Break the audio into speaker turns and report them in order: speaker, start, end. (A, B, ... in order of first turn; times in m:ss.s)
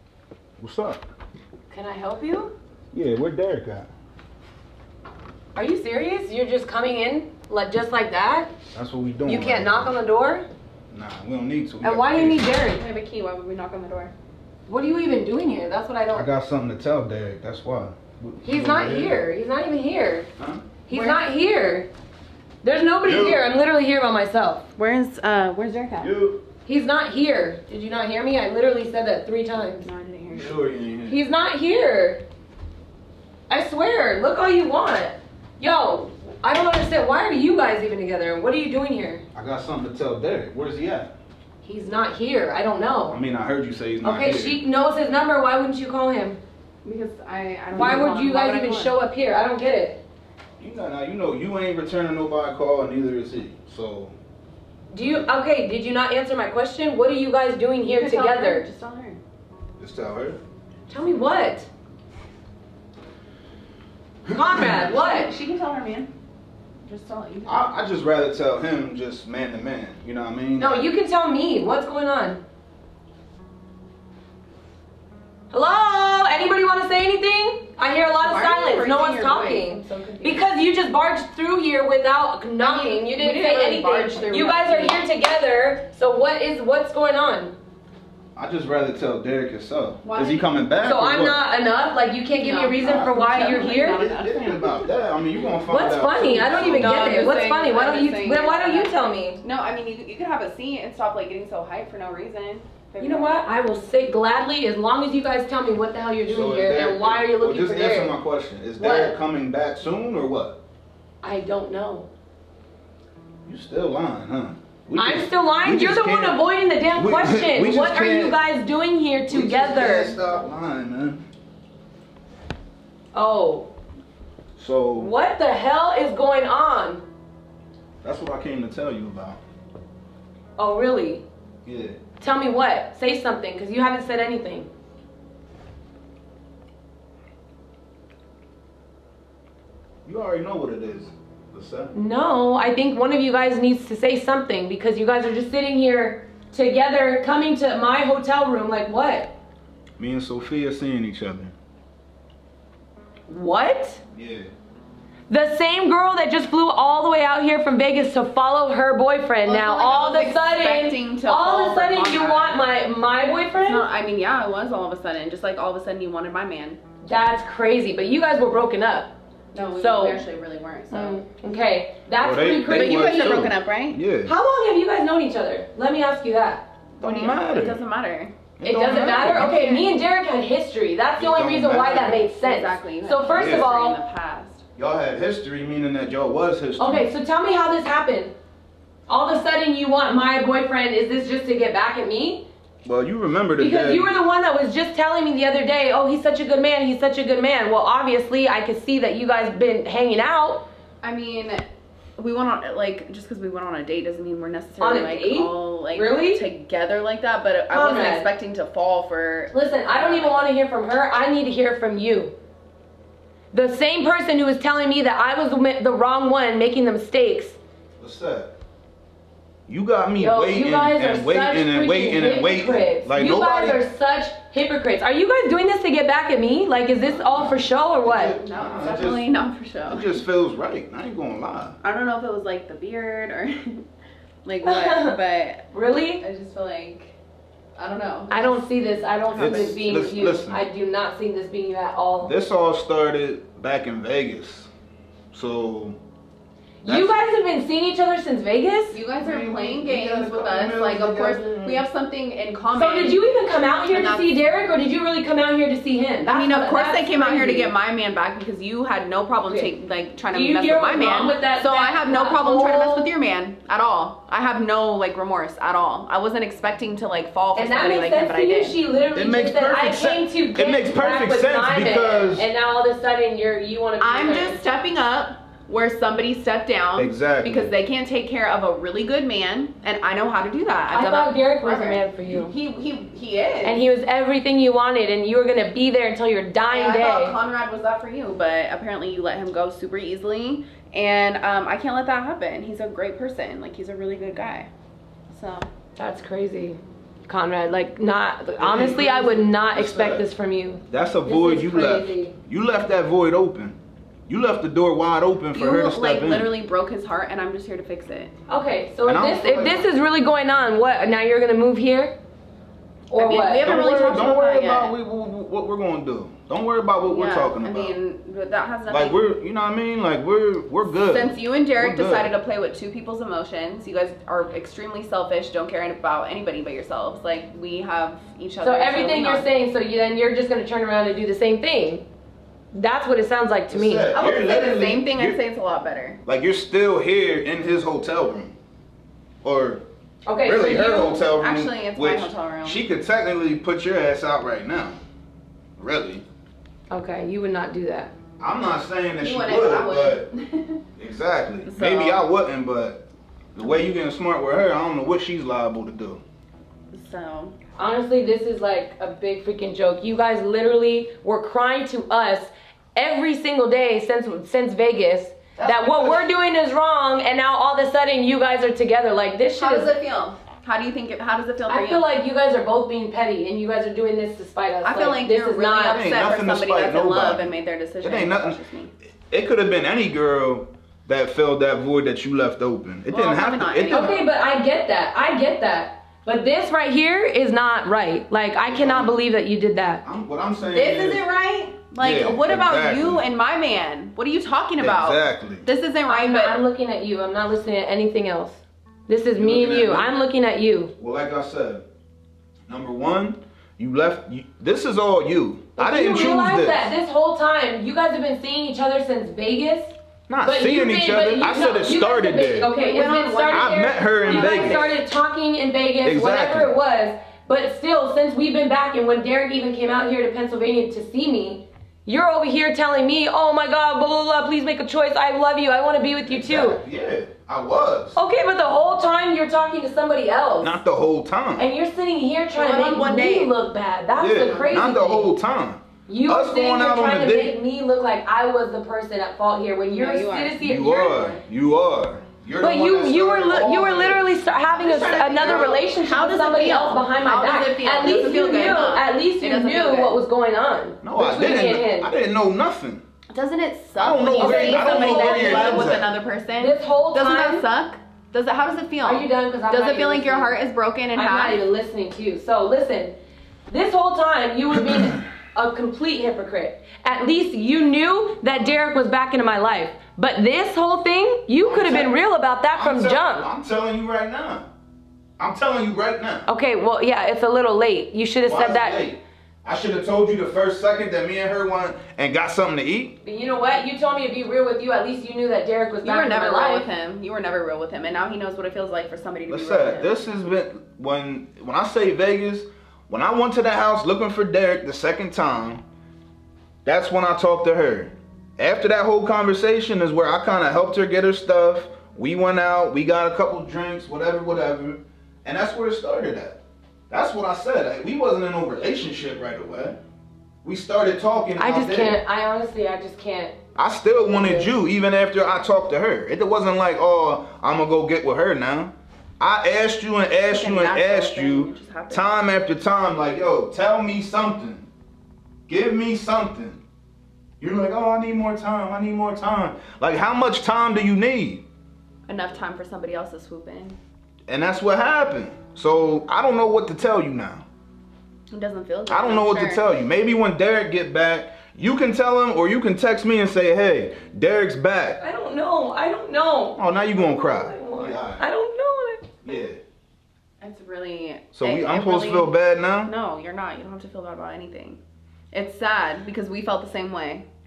0:00.6-0:01.0 A
0:01.7-0:02.5 B
0:02.9-0:03.9 A
0:05.6-0:08.5 B
0:08.7-0:10.0 A
0:09.3-0:10.5 B
0:10.9-0:12.5 A
0:11.8-0:12.8 B
0:12.7-0:14.1 C
0:14.7-0:16.3 B
0:16.1-0:19.2 A
0:18.4-0:20.3 B
0:20.4-0:20.6 A
0:20.9-0:21.9 B
0:20.9-0:21.2 C
0:22.6-0:24.6 B
0:23.0-0:23.4 A
0:24.8-0:26.1 C
0:26.0-0:26.4 A
0:26.6-0:29.9 B
0:29.8-0:30.7 C
0:30.3-0:31.2 A
0:31.1-0:32.2 B
0:33.5-0:39.2 B
0:39.4-0:41.1 A
0:41.6-0:43.2 B
0:43.1-0:44.6 A
0:44.0-0:46.4 B
0:46.8-0:49.0 C
0:47.7-0:50.0 B
0:50.6-0:54.2 A
0:54.9-0:58.7 B
0:57.9-0:59.2 C
0:59.8-1:00.4 A
1:00.9-1:01.7 B
1:04.3-1:04.9 A
1:04.3-1:05.3 B
1:04.7-1:06.1 C
1:06.8-1:07.7 C
1:07.5-1:10.9 A
1:10.6-1:12.4 B
1:15.5-1:27.6 B
1:18.2-1:20.5 C
1:22.6-1:25.0 C
1:28.4-1:31.4 A
1:30.0-1:30.5 C
1:30.8-1:34.0 B
1:32.4-1:35.6 C
1:32.8-1:33.1 A
1:33.7-1:37.2 A
1:35.7-1:39.4 B
1:36.5-1:43.4 C
1:43.0-1:48.2 B
1:46.3-1:50.6 A
1:48.8-1:49.2 B
1:51.2-1:52.1 B
1:53.5-1:58.4 A
1:55.0-2:00.2 B
1:59.3-2:01.2 A
2:03.1-2:03.7 B
2:04.6-2:05.1 A
2:05.0-2:07.0 B
2:08.0-2:09.4 A
2:10.6-2:11.2 B
2:11.6-2:12.0 A
2:12.2-2:14.7 B
2:20.1-2:21.9 A
2:21.9-2:29.3 B
2:30.0-2:31.5 A
2:33.3-2:34.0 B
2:34.2-2:34.5 A
2:35.3-2:43.8 B
2:39.4-2:42.7 C
2:43.6-2:46.8 C
2:47.0-2:49.1 B
2:49.5-2:51.2 C
2:49.8-2:50.2 B
2:50.9-2:53.4 B
2:52.2-2:54.4 A
2:52.7-2:54.0 C
2:54.3-2:56.7 B
2:57.0-2:58.4 C
2:57.0-2:57.8 A
2:58.6-2:59.6 A
2:58.6-3:04.0 B
2:59.3-2:59.9 C
3:01.2-3:02.3 A
3:02.4-3:04.6 C
3:03.3-3:03.7 A
3:04.8-3:07.1 A
3:06.8-3:08.4 B
3:09.1-3:12.5 B
3:12.8-3:14.1 A
3:13.6-3:20.6 B
3:21.0-3:30.5 C
3:24.8-3:26.4 B
3:27.7-3:28.3 B
3:29.5-3:32.4 B
3:33.5-3:37.6 B
3:38.0-3:38.5 A
3:39.7-3:43.8 A
3:40.2-3:48.4 B
3:47.0-3:49.3 A
3:48.4-3:50.2 C
3:49.9-3:51.8 A
3:51.8-3:53.8 C
3:54.4-3:55.7 C
3:54.6-3:55.2 B
3:55.7-3:56.2 B
3:56.2-3:57.1 C
3:57.8-3:58.6 C
3:58.3-4:02.3 B
3:59.3-3:59.7 C
3:59.4-4:00.6 A
4:02.2-4:04.7 A
4:05.3-4:06.0 A
4:06.8-4:09.0 B
4:06.8-4:07.2 A
4:08.9-4:13.2 C
4:09.2-4:11.8 A
4:12.7-4:17.7 B
4:13.9-4:14.4 C
4:16.2-4:28.8 C
4:20.3-4:23.1 B
4:27.6-4:34.6 B
4:29.1-4:32.5 A
4:34.0-4:43.8 C
4:37.0-4:37.7 A
4:40.9-4:42.5 B
4:43.6-4:47.4 B
4:46.7-4:54.7 C
4:55.3-4:55.7 C
4:56.0-5:02.3 B
4:58.6-5:00.3 A
5:00.9-5:03.8 A
5:04.3-5:06.5 A
5:05.6-5:08.3 C
5:08.5-5:12.2 B
5:09.1-5:09.9 A
5:13.1-5:13.8 B
5:13.2-5:15.0 C
5:13.6-5:18.0 A
5:17.0-5:19.2 C
5:18.9-5:22.3 A
5:20.8-5:29.5 C
5:28.6-5:32.0 B
5:32.7-5:34.5 B
5:33.7-5:35.4 A
5:34.2-5:36.2 C
5:36.3-5:38.6 A
5:39.4-5:39.8 A
5:40.3-5:41.2 B
5:40.4-5:45.0 A
5:41.1-5:42.8 C
5:45.8-5:46.2 A
5:46.9-5:48.1 B
5:48.4-5:50.3 A
5:49.2-5:50.8 C
5:51.0-5:56.2 A
5:51.7-5:52.3 C
5:56.9-5:57.6 C
5:57.8-6:09.9 B
6:05.6-6:06.3 A
6:09.6-6:12.1 C
6:11.7-6:16.1 B
6:14.8-6:18.9 C
6:15.9-6:17.5 A
6:18.0-6:18.6 A
6:19.3-6:24.1 A
6:23.1-6:24.2 C
6:23.9-6:30.0 B
6:28.7-6:29.2 A
6:30.0-6:31.2 A
6:30.7-6:36.6 C
6:32.0-6:33.2 A
6:34.8-6:35.6 A
6:36.1-6:40.9 B
6:39.4-6:40.1 A
6:41.0-6:41.8 A
6:42.7-6:46.9 A
6:45.8-7:06.8 B
6:50.3-6:52.7 A
6:52.6-6:54.9 C
6:53.5-6:55.0 A
6:56.0-6:56.7 A
7:06.3-7:08.2 A
7:08.2-7:10.8 B
7:10.6-7:11.7 A
7:11.6-7:15.4 B
7:12.5-7:13.6 C
7:14.2-7:17.6 A
7:16.1-7:21.4 B
7:19.9-7:20.6 C
7:20.6-7:24.3 A
7:22.6-7:32.1 B
7:24.8-7:30.1 C
7:25.4-7:25.7 A
7:31.0-7:33.0 A
7:33.3-7:41.6 C
7:34.0-7:36.1 A
7:34.3-7:36.0 B
7:36.6-7:37.7 B
7:39.0-7:43.2 B
7:43.7-7:53.5 B
7:51.6-7:52.2 A
7:52.7-7:54.7 A
7:55.4-7:56.5 A
7:56.5-7:59.1 B
7:58.5-8:03.2 A
8:03.2-8:06.9 B
8:06.0-8:10.2 C
8:09.5-8:15.8 A
8:16.8-8:30.0 A
8:30.6-8:32.2 A
8:31.6-8:33.6 B
8:33.8-8:44.9 A
8:34.3-8:34.7 B
8:40.5-8:42.4 C
8:45.7-8:46.8 A
8:47.6-8:51.6 A
8:52.3-8:54.0 C
8:54.5-8:57.6 A
8:58.5-8:59.9 C
8:59.1-9:05.2 A
9:05.2-9:09.4 B
9:06.8-9:08.4 A
9:09.4-9:09.8 A
9:10.6-9:15.0 C
9:11.5-9:13.1 A
9:15.5-9:17.4 C